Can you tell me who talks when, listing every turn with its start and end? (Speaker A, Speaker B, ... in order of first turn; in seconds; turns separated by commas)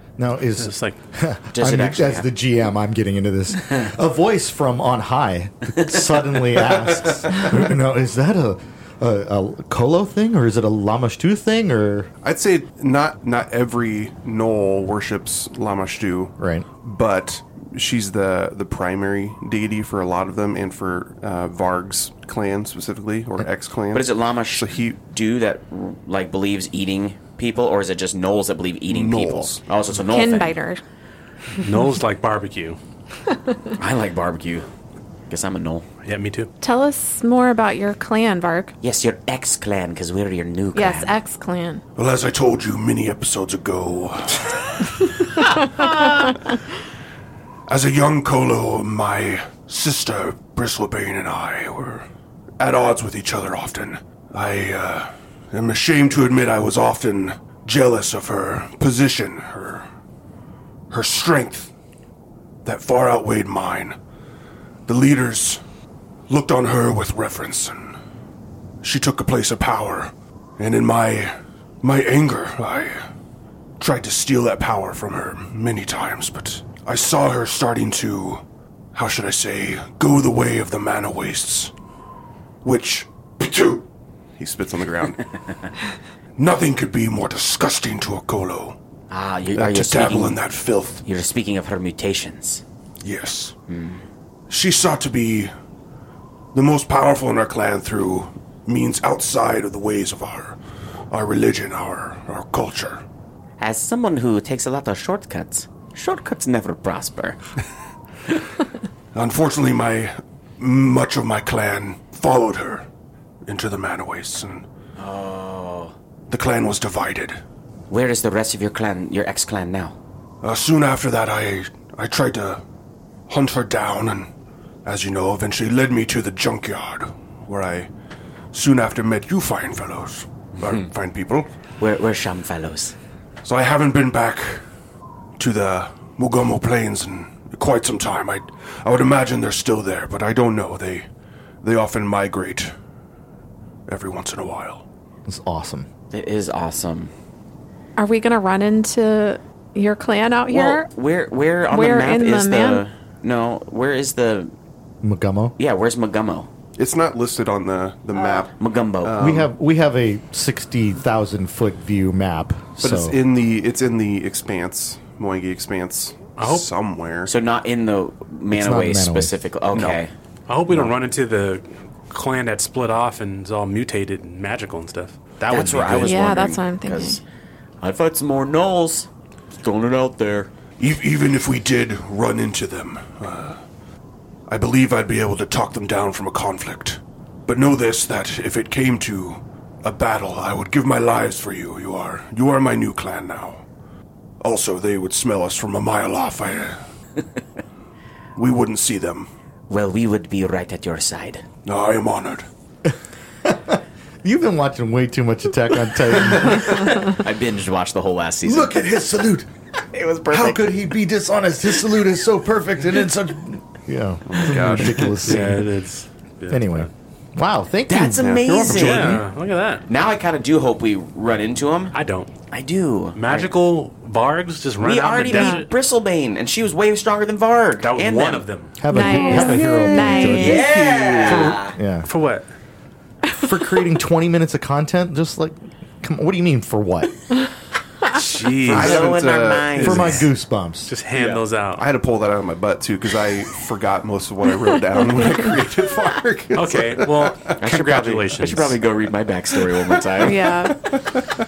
Speaker A: 0.2-12.1, Speaker B: 0.6-1.0, Speaker C: 1.5-2.3, Speaker D: 12.2-25.0, Speaker A: 16.4-16.7, Speaker C: 23.9-30.6, Speaker D: 28.9-29.6, Speaker E: 29.9-30.8, Speaker B: 31.6-32.8, Speaker C: 33.8-34.7, Speaker C: 35.3-35.9, Speaker B: 36.0-36.5, Speaker E: 36.6-38.7, Speaker C: 38.8-41.1, Speaker E: 40.7-41.8, Speaker F: 42.0-45.0, Speaker E: 45.6-46.4, Speaker F: 47.7-52.0, Speaker F: 52.6-59.9, Speaker F: 60.9-61.7, Speaker F: 62.6-64.0, Speaker F: 64.9-65.6, Speaker F: 66.3-68.0, Speaker F: 68.8-73.0, Speaker F: 73.8-78.4, Speaker F: 78.9-81.7, Speaker F: 82.6-83.8, Speaker D: 84.4-85.4, Speaker F: 86.4-88.8, Speaker C: 89.1-90.4, Speaker F: 89.5-91.0, Speaker C: 91.0-92.6, Speaker F: 93.0-93.5, Speaker C: 93.7-94.0, Speaker F: 94.5-95.5, Speaker F: 96.5-100.6, Speaker F: 101.1-103.0, Speaker C: 103.6-107.4, Speaker F: 109.1-112.8, Speaker F: 113.4-114.7, Speaker C: 115.0-115.9, Speaker F: 116.3-117.4, Speaker C: 117.9-120.0, Speaker F: 120.4-122.6, Speaker F: 123.3-124.3, Speaker F: 124.8-127.9, Speaker F: 128.5-131.5, Speaker C: 131.8-132.9, Speaker F: 133.4-134.6, Speaker F: 135.4-141.1, Speaker F: 141.6-142.7, Speaker F: 143.9-144.8, Speaker A: 145.2-145.9, Speaker C: 146.1-147.1, Speaker E: 148.0-150.9, Speaker C: 150.5-154.5, Speaker E: 151.7-152.8, Speaker A: 155.0-155.6, Speaker C: 155.6-156.5, Speaker D: 156.8-159.5, Speaker C: 158.5-159.4, Speaker A: 159.2-163.2, Speaker D: 162.8-167.3, Speaker B: 166.4-166.7, Speaker C: 167.2-170.1, Speaker A: 168.5-169.3, Speaker B: 170.5-176.1, Speaker C: 175.4-177.2, Speaker E: 176.0-177.2, Speaker C: 177.8-180.5, Speaker F: 180.8-183.6, Speaker F: 184.5-193.6, Speaker F: 194.4-196.8, Speaker F: 198.3-199.3, Speaker C: 199.7-201.4, Speaker F: 201.6-202.4, Speaker A: 203.4-206.9, Speaker C: 207.0-208.7, Speaker G: 208.4-209.5, Speaker C: 209.9-210.7, Speaker G: 210.3-213.4, Speaker A: 212.4-215.7, Speaker D: 214.2-215.4, Speaker B: 215.2-216.9, Speaker A: 216.5-219.0, Speaker C: 217.9-219.2, Speaker D: 218.2-219.2, Speaker B: 218.6-219.8, Speaker C: 219.9-221.9, Speaker B: 221.9-222.3, Speaker C: 222.5-223.5, Speaker B: 223.1-225.7, Speaker C: 224.8-228.4, Speaker E: 225.3-225.6, Speaker B: 227.8-228.8, Speaker A: 228.8-230.7, Speaker E: 228.9-230.7, Speaker C: 230.2-231.7, Speaker G: 230.3-231.6, Speaker A: 231.3-232.1, Speaker B: 232.1-232.4, Speaker A: 233.4-237.2, Speaker B: 238.1-239.2, Speaker C: 238.6-240.2, Speaker D: 238.6-240.2, Speaker A: 239.8-240.9, Speaker B: 240.9-241.9, Speaker D: 241.1-247.5, Speaker B: 246.5-248.8, Speaker C: 247.6-250.6, Speaker E: 250.2-250.8, Speaker D: 250.9-251.2